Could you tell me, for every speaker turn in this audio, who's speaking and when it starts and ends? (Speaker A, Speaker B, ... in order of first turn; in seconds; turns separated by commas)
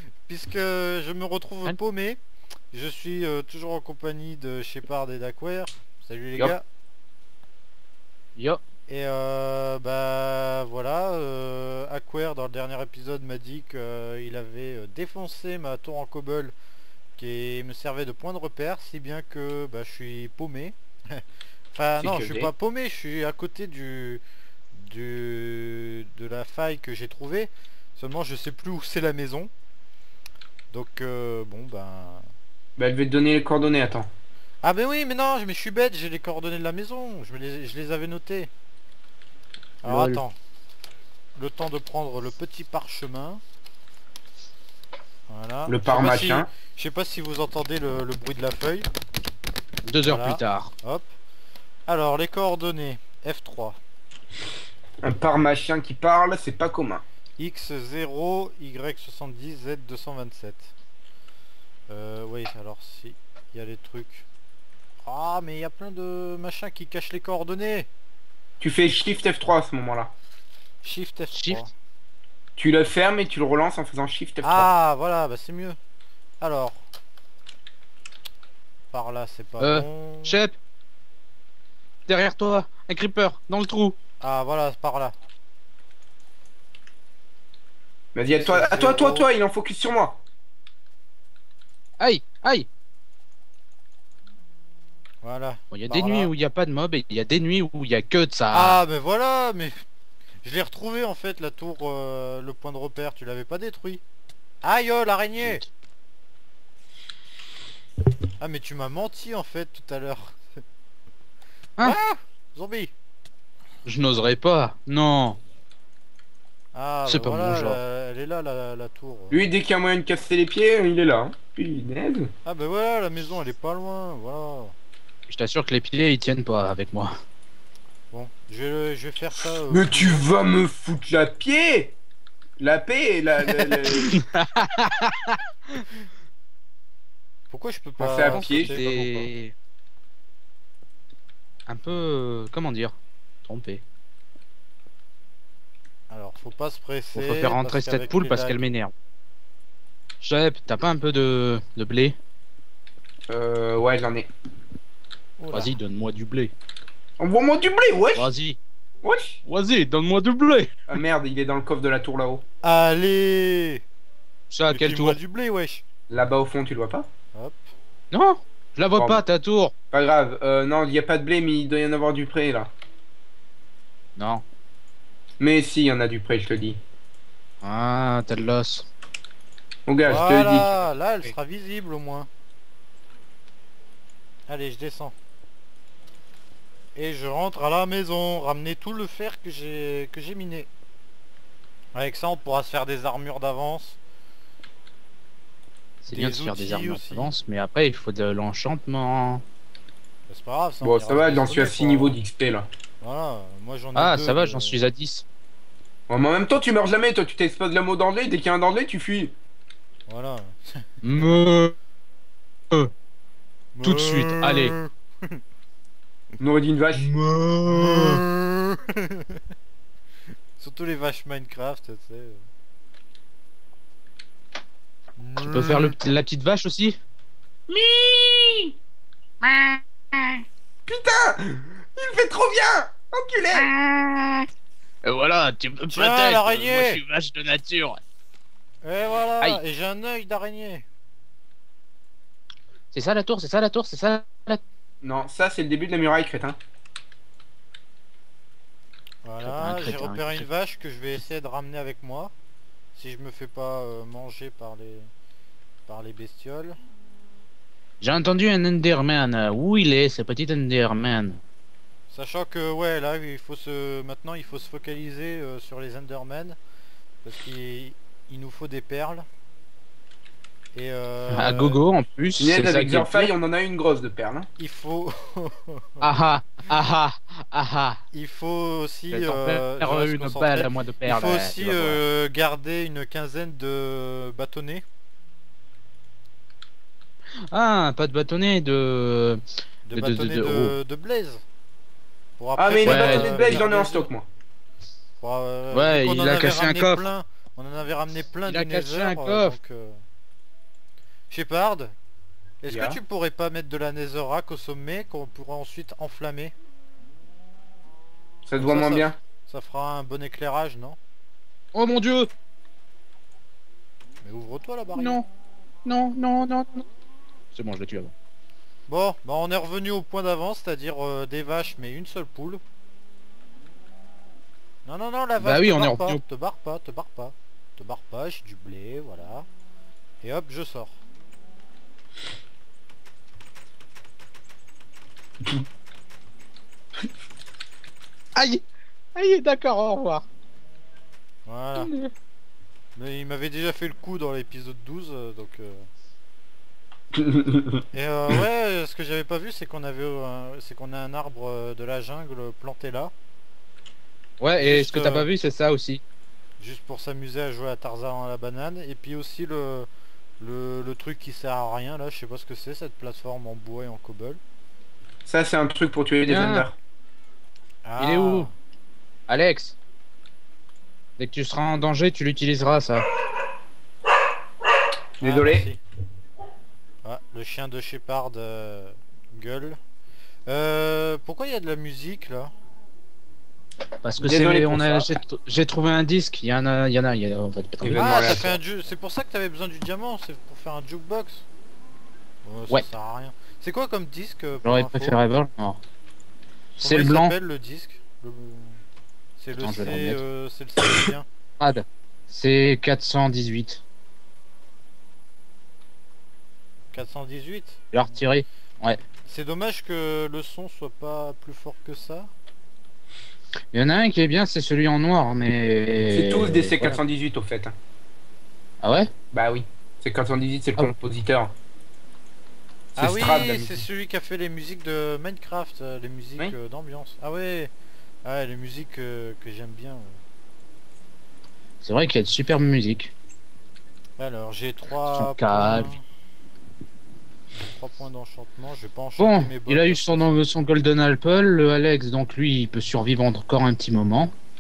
Speaker A: 0.2-2.2, Speaker A: 2.7-6.6, Speaker A: 8.9-16.5, Speaker A: 17.2-24.2, Speaker B: 22.0-22.5, Speaker A: 24.7-29.5, Speaker A: 30.7-32.2, Speaker B: 32.8-34.1, Speaker A: 34.6-38.5, Speaker C: 39.8-40.2, Speaker A: 39.8-40.4, Speaker A: 41.4-43.4, Speaker A: 45.3-48.9, Speaker B: 45.7-46.5, Speaker C: 49.8-50.7, Speaker A: 50.0-51.1, Speaker A: 51.9-53.8, Speaker B: 55.0-57.0, Speaker A: 57.4-60.7, Speaker A: 61.9-64.2, Speaker A: 65.0-67.9, Speaker B: 68.6-70.1, Speaker A: 70.8-71.7, Speaker C: 71.3-71.6, Speaker B: 72.6-74.7, Speaker A: 74.4-75.8, Speaker A: 76.4-76.8, Speaker A: 78.9-80.4, Speaker C: 79.6-80.5, Speaker C: 82.1-84.0, Speaker A: 84.2-85.1, Speaker B: 88.1-90.2, Speaker A: 88.4-89.3, Speaker C: 92.0-92.7, Speaker A: 95.2-96.3, Speaker C: 95.7-98.8, Speaker A: 98.5-99.8, Speaker A: 100.4-104.0, Speaker A: 104.6-105.6, Speaker C: 105.4-105.7, Speaker A: 108.4-110.6, Speaker A: 111.8-112.9, Speaker C: 113.8-115.4, Speaker A: 116.7-119.4, Speaker C: 117.1-117.8, Speaker B: 119.3-122.3, Speaker A: 122.4-124.7, Speaker C: 125.3-127.1, Speaker A: 128.1-130.3, Speaker B: 129.7-131.9, Speaker B: 132.6-134.2, Speaker C: 133.6-135.8, Speaker A: 137.5-139.3, Speaker B: 138.0-138.8, Speaker C: 138.2-139.5, Speaker C: 141.7-143.8, Speaker A: 146.1-148.6, Speaker C: 147.1-148.9, Speaker C: 150.2-152.2, Speaker B: 153.3-154.3, Speaker A: 155.4-155.7, Speaker C: 155.5-156.5, Speaker B: 157.2-158.3, Speaker C: 158.1-158.6, Speaker B: 159.0-159.4, Speaker C: 159.4-160.7, Speaker B: 160.9-162.4, Speaker A: 162.6-163.8, Speaker C: 164.5-165.2, Speaker A: 164.7-165.8, Speaker B: 166.1-167.1, Speaker A: 167.3-167.7, Speaker C: 168.1-169.7, Speaker B: 169.9-172.7, Speaker C: 174.2-174.4, Speaker B: 175.4-176.8, Speaker C: 177.6-178.9, Speaker B: 179.9-180.7, Speaker A: 180.0-182.3, Speaker A: 184.5-185.1, Speaker A: 186.9-190.7, Speaker A: 191.9-194.0, Speaker C: 196.0-199.4, Speaker A: 196.1-197.3, Speaker A: 200.3-202.2, Speaker B: 200.8-202.7, Speaker A: 203.0-204.8, Speaker C: 203.9-205.2, Speaker B: 206.1-209.3, Speaker A: 210.1-211.3, Speaker C: 211.0-211.7, Speaker A: 213.7-215.4, Speaker C: 213.8-214.7, Speaker B: 216.4-217.1, Speaker C: 217.1-218.2, Speaker A: 217.6-219.4, Speaker A: 220.6-222.4, Speaker A: 225.2-226.0, Speaker C: 225.4-227.0, Speaker B: 227.7-228.7, Speaker C: 229.4-230.4, Speaker B: 230.8-233.7, Speaker C: 233.5-234.5, Speaker C: 235.0-238.0, Speaker A: 235.9-237.0, Speaker A: 238.8-240.8, Speaker C: 242.9-244.6, Speaker B: 245.0-246.6, Speaker A: 249.2-252.3, Speaker C: 249.4-250.4, Speaker A: 252.9-255.1, Speaker A: 255.9-256.8, Speaker C: 258.0-261.4, Speaker A: 262.1-266.6, Speaker A: 267.2-269.2, Speaker A: 270.7-271.8, Speaker C: 271.3-273.3, Speaker B: 272.4-274.5, Speaker A: 274.6-276.1, Speaker C: 276.0-278.0, Speaker A: 278.1-284.8, Speaker C: 279.1-282.0, Speaker C: 287.5-289.4, Speaker A: 289.9-291.4, Speaker C: 289.9-290.7, Speaker A: 292.4-294.1, Speaker B: 292.6-294.2, Speaker C: 292.8-293.6, Speaker A: 295.2-300.0, Speaker C: 295.7-297.0, Speaker C: 298.4-299.6, Speaker A: 301.3-301.9, Speaker A: 302.6-306.5, Speaker B: 302.7-303.0, Speaker B: 308.4-309.1, Speaker A: 308.6-311.0, Speaker C: 311.7-312.3, Speaker A: 314.2-315.2, Speaker C: 314.9-315.2, Speaker C: 315.8-316.9, Speaker C: 317.5-318.1, Speaker A: 318.9-322.6, Speaker A: 324.9-329.5, Speaker C: 325.4-326.2, Speaker A: 330.2-331.0, Speaker C: 338.3-338.6, Speaker C: 339.1-340.2, Speaker A: 341.5-341.9, Speaker C: 341.8-342.1, Speaker A: 342.9-345.9, Speaker B: 347.1-347.8, Speaker A: 347.9-353.1, Speaker C: 354.4-356.0, Speaker A: 354.6-355.3, Speaker A: 356.6-359.9, Speaker A: 360.4-364.4, Speaker B: 365.2-366.8, Speaker C: 366.3-366.7, Speaker A: 367.8-368.5, Speaker C: 368.0-368.5, Speaker C: 369.3-369.8, Speaker C: 371.2-373.1, Speaker B: 375.2-375.7, Speaker A: 375.2-375.8, Speaker A: 377.0-379.8, Speaker A: 380.5-382.5, Speaker C: 384.0-388.6, Speaker B: 384.2-385.1, Speaker B: 387.8-388.5, Speaker A: 387.9-391.4, Speaker A: 392.4-395.2, Speaker C: 394.6-395.8, Speaker C: 396.8-397.3, Speaker A: 396.8-398.8, Speaker A: 399.4-401.3, Speaker C: 399.6-400.2, Speaker C: 401.6-403.8, Speaker A: 406.9-408.2, Speaker C: 407.9-409.0, Speaker A: 409.2-412.3, Speaker C: 413.7-417.0, Speaker B: 416.0-417.7, Speaker C: 418.8-419.1, Speaker B: 419.3-421.5, Speaker A: 422.9-427.7, Speaker B: 423.0-423.8, Speaker A: 428.2-430.2, Speaker C: 431.8-433.1, Speaker A: 434.2-436.0, Speaker C: 435.1-435.9, Speaker A: 437.6-440.4, Speaker C: 439.2-444.3